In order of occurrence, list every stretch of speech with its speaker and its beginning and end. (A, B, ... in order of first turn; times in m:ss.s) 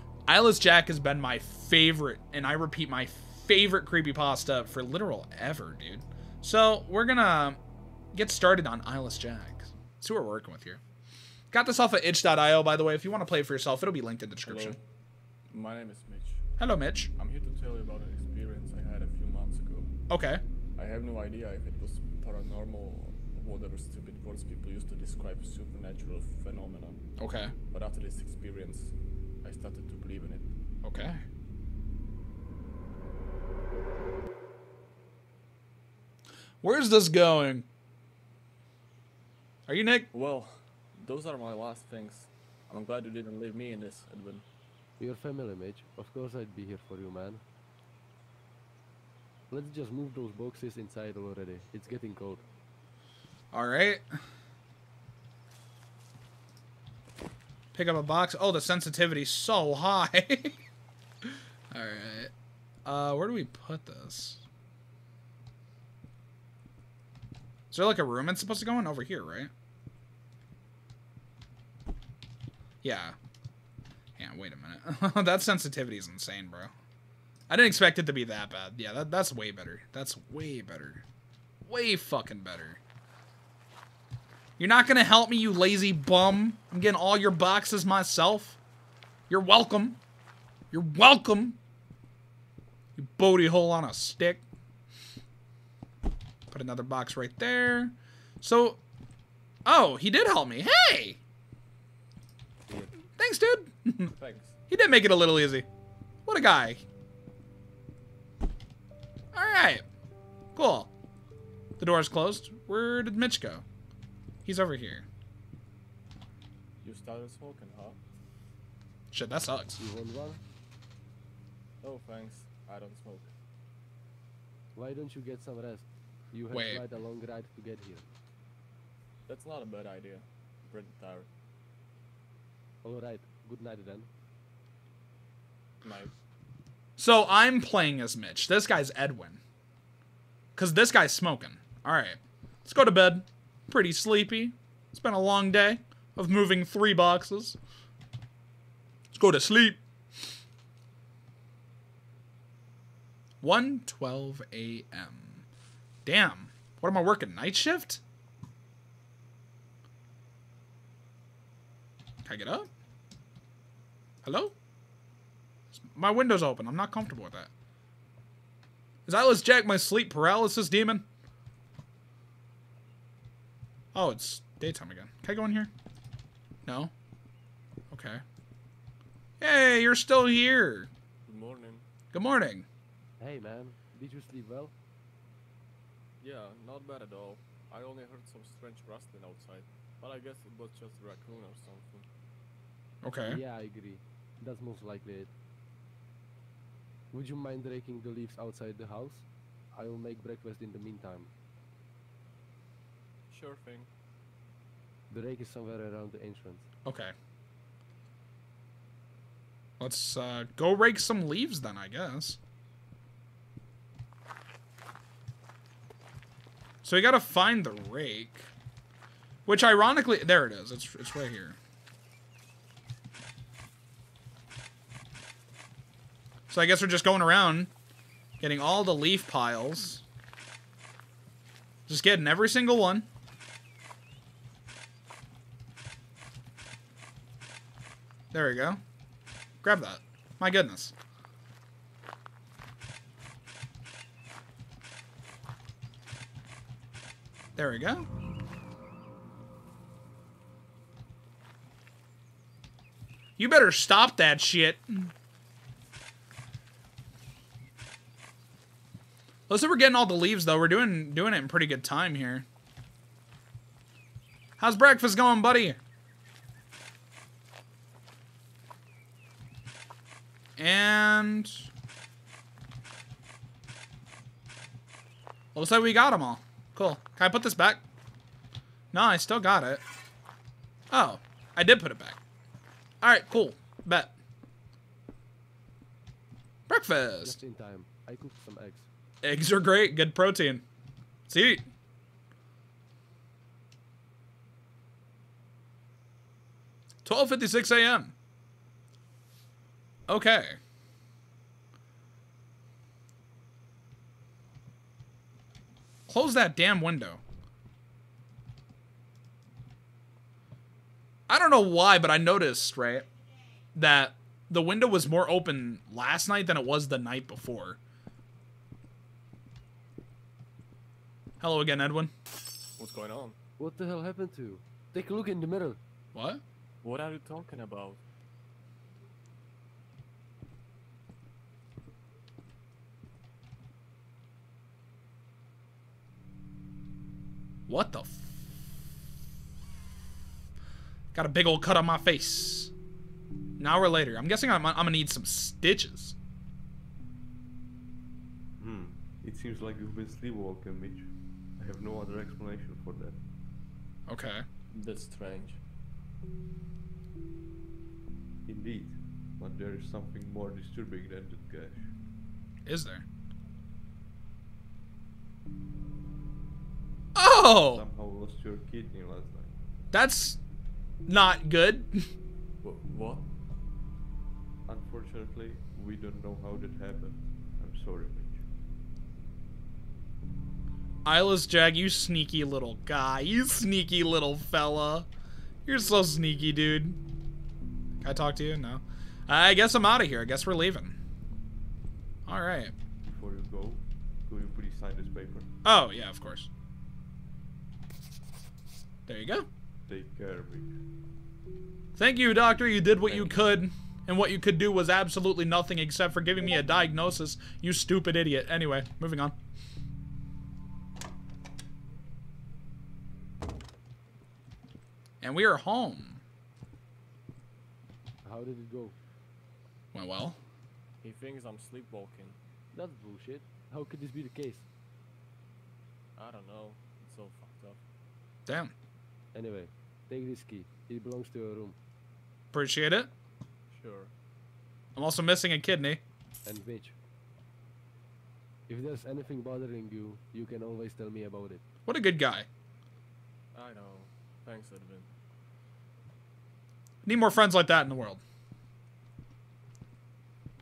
0:00.3-0:07.6 A
0:08.1-0:10.8 A
0:11.5-0:14.8 A
0:14.4-0:14.8 B
0:15.5-0:16.5 B
0:16.6-0:17.1 A
0:17.2-0:19.9 B
0:20.1-0:20.4 A
0:20.8-0:27.0 B
0:27.2-0:27.5 A
0:27.7-0:30.5 B
0:30.8-0:31.2 A
0:36.6-0:37.7 A
0:39.7-0:40.1 A
0:40.1-0:44.5 B
0:45.0-0:47.4 C
0:49.5-0:52.4 C
0:53.5-0:54.0 A
0:57.7-1:00.6 A
1:01.7-1:02.3 A
1:02.9-1:04.4 A
1:07.7-1:09.5 A
1:12.8-1:13.2 A
1:14.2-1:16.7 A
1:17.5-1:21.0 A
1:21.6-1:22.8 A
1:24.6-1:28.6 A
1:29.3-1:30.0 A
1:30.7-1:31.6 A
1:33.0-1:34.4 A
1:36.5-1:38.8 A
1:39.7-1:41.2 A
1:42.7-1:42.9 C
1:43.2-1:44.1 A
1:44.2-1:44.6 B
1:44.7-1:45.7 A
1:46.3-1:46.8 A
1:49.3-1:49.8 A
1:50.6-1:50.9 A
1:51.8-1:53.6 A
1:54.4-1:55.1 A
1:56.8-1:58.0 B
1:59.1-1:59.8 A
1:59.8-2:00.4 C
2:01.8-2:03.3 B
2:04.8-2:08.1 C
2:06.5-2:06.8 A
2:09.3-2:11.3 B
2:12.8-2:14.1 C
2:15.8-2:16.1 B
2:17.0-2:19.4 A
2:20.6-2:27.6 A
2:29.1-2:29.8 A
2:33.4-2:35.4 A
2:36.1-2:38.0 A
2:42.2-2:42.7 A
2:44.2-2:44.5 A
2:45.7-2:47.5 A
2:49.1-2:51.0 A
2:53.9-2:55.7 A
2:56.7-2:56.9 A
2:57.9-2:58.2 A
2:59.4-3:00.9 A
3:01.3-3:01.9 B
3:02.1-3:02.7 A
3:03.2-3:04.7 C
3:06.2-3:12.1 B
3:13.0-3:13.4 A
3:13.2-3:15.3 C
3:17.1-3:21.3 C
3:23.3-3:23.9 B
3:25.1-3:26.7 C
3:26.8-3:27.1 A
3:29.8-3:32.4 A
3:36.8-3:38.5 A
3:39.5-3:41.6 A
3:46.5-3:47.7 A
3:48.4-3:50.0 A
3:51.9-3:53.1 A
3:58.3-3:58.8 A
3:59.6-4:00.9 A
4:07.6-4:08.1 A
4:13.4-4:15.1 A
4:19.5-4:22.4 A
4:24.6-4:25.8 A
4:30.6-4:31.6 A
4:35.6-4:37.8 A
4:38.9-4:39.8 A
4:40.9-4:42.2 A
4:43.0-4:44.1 A
4:46.7-4:47.4 A
4:47.2-4:48.9 C
4:49.2-4:50.6 A
4:51.3-4:51.7 A
4:57.0-4:58.1 A
5:00.1-5:00.6 A
5:06.1-5:07.2 A
5:11.3-5:13.1 A
5:13.8-5:17.8 A
5:21.4-5:22.1 A
5:22.8-5:23.4 B
5:23.6-5:25.8 C
5:26.1-5:26.4 A
5:26.8-5:28.0 B
5:37.7-5:38.4 A
5:41.1-5:42.7 A
5:43.6-5:46.2 A
5:48.6-5:53.2 D
5:54.1-5:54.4 A
5:54.7-5:55.6 B
5:58.5-6:01.9 D
6:02.7-6:03.1 A
6:07.2-6:07.8 A
6:07.7-6:09.6 D
6:09.9-6:10.4 A
6:11.1-6:12.1 A
6:12.6-6:13.3 B
6:14.6-6:18.5 D
6:21.0-6:25.1 A
6:25.7-6:27.0 A
6:28.0-6:31.0 A
6:32.3-6:32.7 A
6:33.0-6:35.5 D
6:35.6-6:36.5 A
6:39.1-6:39.5 A
6:39.9-6:40.8 D
6:42.0-6:49.4 A
6:43.1-6:43.3 D
6:55.2-6:56.2 A
6:58.2-6:59.0 C
6:59.9-7:00.4 A
7:01.0-7:02.4 B
7:02.7-7:04.7 C
7:06.2-7:07.8 B
7:08.5-7:08.7 A
7:09.3-7:11.8 C
7:12.5-7:13.1 A
7:13.7-7:14.1 B
7:15.0-7:16.0 A
7:16.4-7:17.0 C
7:18.7-7:21.6 C
7:21.9-7:22.5 A
7:23.5-7:25.1 B
7:27.0-7:28.2 A